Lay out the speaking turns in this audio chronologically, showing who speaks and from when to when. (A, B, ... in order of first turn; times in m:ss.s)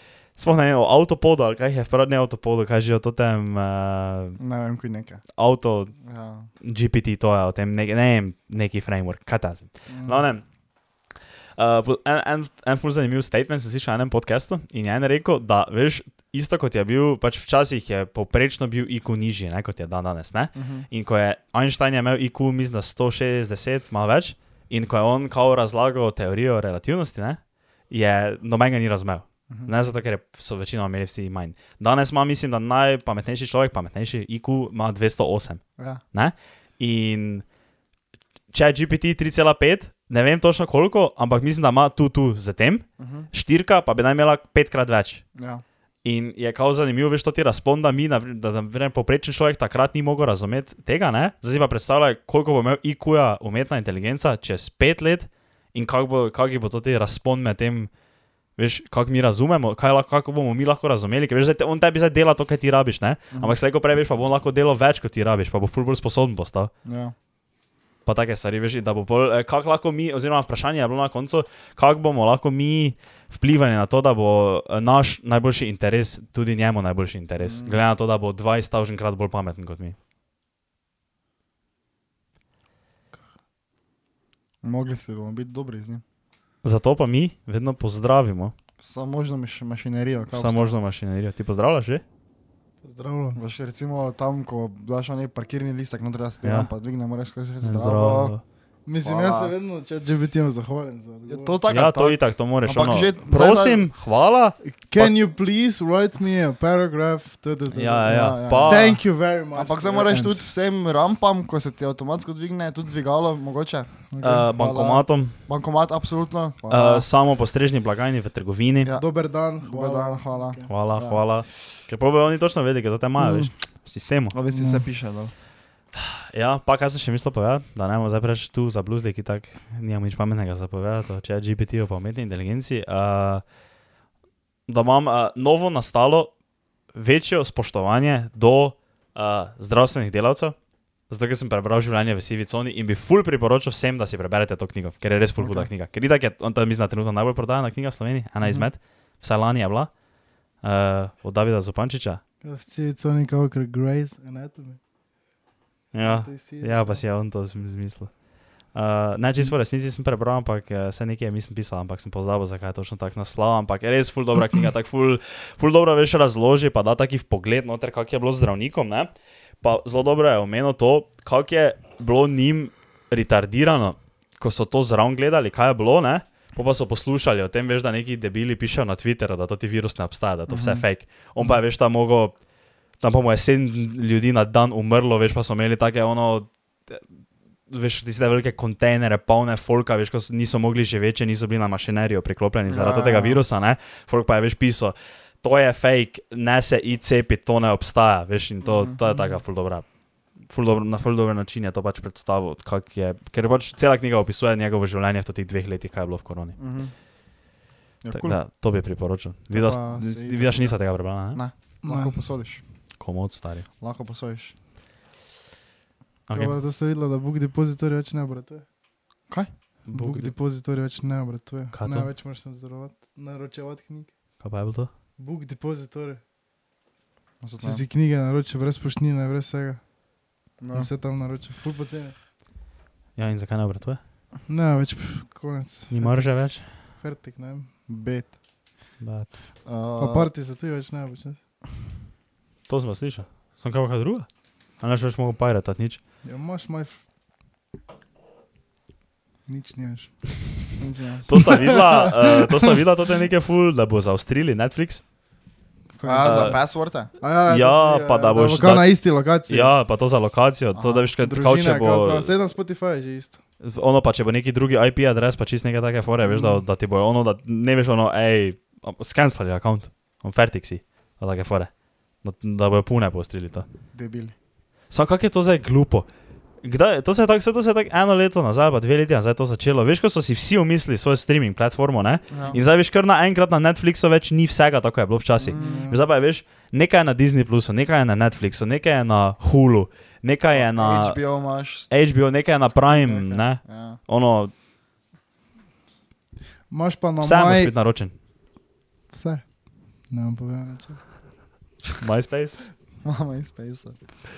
0:00.4-0:04.4 A
0:04.4-0:05.2 B
0:05.3-0:06.0 A
0:06.0-0:06.5 B
0:06.6-0:10.4 A
0:09.9-0:10.2 C
0:11.6-0:37.4 A
0:20.6-0:20.9 B
0:38.5-0:45.2 A
0:43.0-0:43.3 B
0:45.4-0:45.6 B
0:46.0-0:57.9 A
0:58.6-1:06.7 A
1:06.8-1:07.1 B
1:08.0-1:20.0 A
1:17.4-1:17.8 B
1:24.6-1:26.0 B
1:26.6-1:28.5 A
1:28.8-1:30.7 B
1:30.3-1:32.0 A
1:32.8-1:33.4 C
1:33.3-1:38.3 B
1:36.4-1:36.7 A
1:37.6-1:38.4 A
1:38.8-1:41.6 C
1:39.0-1:39.5 B
1:41.3-1:43.9 B
1:41.7-1:45.1 A
1:44.6-1:50.4 C
1:47.7-1:49.0 A
1:48.0-1:57.0 B
1:54.1-1:54.5 C
1:54.2-1:55.4 A
1:56.7-1:58.9 A
1:58.8-2:01.2 B
1:58.9-2:00.7 C
2:00.7-2:04.3 A
2:03.2-2:03.5 B
2:04.3-2:05.3 B
2:04.5-2:04.8 C
2:05.9-2:13.4 A
2:14.7-2:16.3 A
2:16.9-2:20.6 A
2:21.1-2:29.9 A
2:25.4-2:25.7 B
2:30.6-2:32.2 A
2:32.4-2:34.8 C
2:35.9-2:38.2 A
2:36.0-2:37.0 C
2:38.7-2:49.1 A
2:49.6-3:02.3 A
3:00.5-3:00.8 B
3:03.0-3:07.0 A
3:07.7-3:19.8 A
3:12.7-3:13.4 B
3:18.6-3:19.4 B
3:20.4-3:26.6 A
3:26.6-3:26.9 B
3:28.0-3:28.4 B
3:28.1-3:31.4 A
3:29.5-3:32.6 B
3:31.8-3:32.1 C
3:33.0-3:33.7 A
3:33.8-3:34.5 B
3:36.3-3:36.5 A
3:36.3-3:38.6 C
3:39.8-3:40.3 A
3:39.9-3:44.1 C
3:41.7-3:42.1 A
3:44.4-3:44.9 A
3:45.2-3:46.2 C
3:47.4-3:47.8 B
3:47.6-3:49.8 C
3:50.6-3:50.9 B
3:50.7-3:52.1 C
3:53.2-3:54.0 A
3:54.5-3:57.7 C
3:55.9-3:56.7 A
3:57.9-3:58.3 B
3:59.0-3:59.4 A
3:59.6-4:00.3 B
4:00.0-4:01.4 C
4:02.7-4:06.0 A
4:06.2-4:07.0 C
4:09.5-4:10.2 C
4:10.8-4:11.3 B
4:11.3-4:15.0 A
4:11.3-4:12.7 C
4:15.9-4:16.6 C
4:16.0-4:17.1 B
4:16.2-4:16.7 A
4:17.2-4:19.7 C
4:17.4-4:22.3 A
4:20.7-4:21.1 B
4:21.2-4:23.4 C
4:23.6-4:33.6 A
4:26.3-4:26.6 B
4:33.9-4:34.3 B
4:34.9-4:36.1 A
4:36.6-4:51.2 A
4:42.3-4:42.6 B
4:45.4-4:45.9 B
4:45.5-4:46.0 C
4:50.5-4:51.9 B
4:51.9-4:54.5 A
4:52.8-4:54.0 B
4:56.7-4:57.7 C
4:57.2-4:58.1 A
4:59.1-4:59.5 C
5:00.1-5:01.0 C
5:02.0-5:02.6 A
5:03.0-5:04.0 B